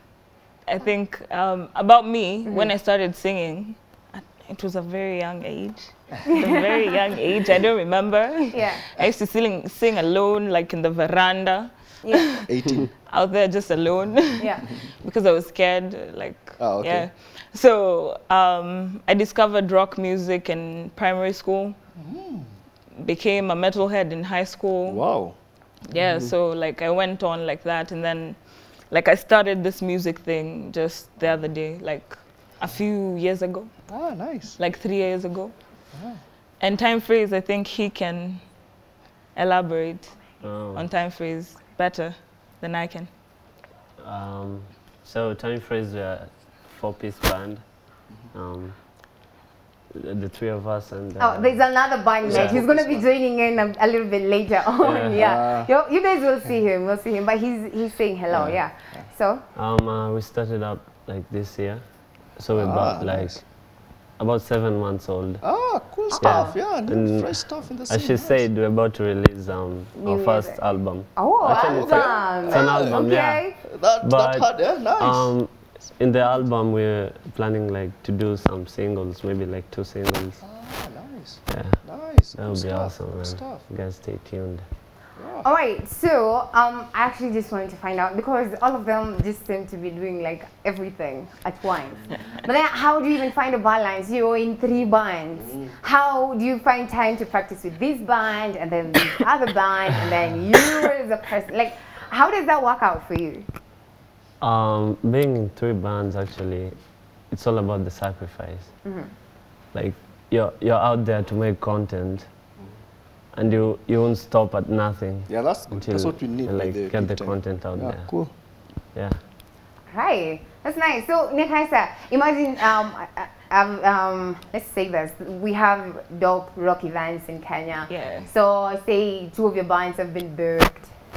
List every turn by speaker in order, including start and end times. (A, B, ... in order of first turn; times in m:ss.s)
0:00.7-0:21.8 A
0:02.5-0:02.7 B
0:06.3-0:06.6 B
0:08.5-0:08.8 B
0:12.0-0:12.3 B
0:12.5-0:12.8 C
0:14.4-0:14.6 B
0:16.6-0:17.1 C
0:22.0-0:22.5 C
0:23.0-0:25.1 A
0:24.8-0:25.4 C
0:25.9-0:33.7 A
0:33.9-0:34.6 C
0:34.6-0:35.6 A
0:35.9-0:36.2 C
0:36.6-0:38.4 A
0:39.3-0:43.1 A
0:40.4-0:40.9 D
0:44.0-0:47.7 D
0:48.3-0:48.8 D
0:49.9-0:52.7 D
0:51.2-0:59.4 B
0:52.2-0:53.0 C
0:54.8-0:55.2 D
0:55.1-0:55.7 C
0:58.3-0:59.0 C
0:59.5-1:03.5 D
1:02.5-1:03.4 C
1:04.2-1:05.4 D
1:05.4-1:08.5 C
1:06.1-1:06.6 B
1:06.2-1:20.4 D
1:10.0-1:10.6 B
1:11.1-1:13.6 B
1:11.5-1:13.0 C
1:13.5-1:15.3 C
1:20.4-1:23.6 C
1:21.5-1:24.6 D
1:25.2-1:25.4 C
1:25.4-1:43.4 B
1:44.4-1:46.7 D
1:47.3-1:48.7 D
1:48.8-1:49.1 B
1:49.7-1:52.3 D
1:53.3-1:58.1 D
1:55.3-1:58.3 C
1:58.9-1:59.2 D
1:59.9-2:10.9 B
2:07.9-2:08.3 A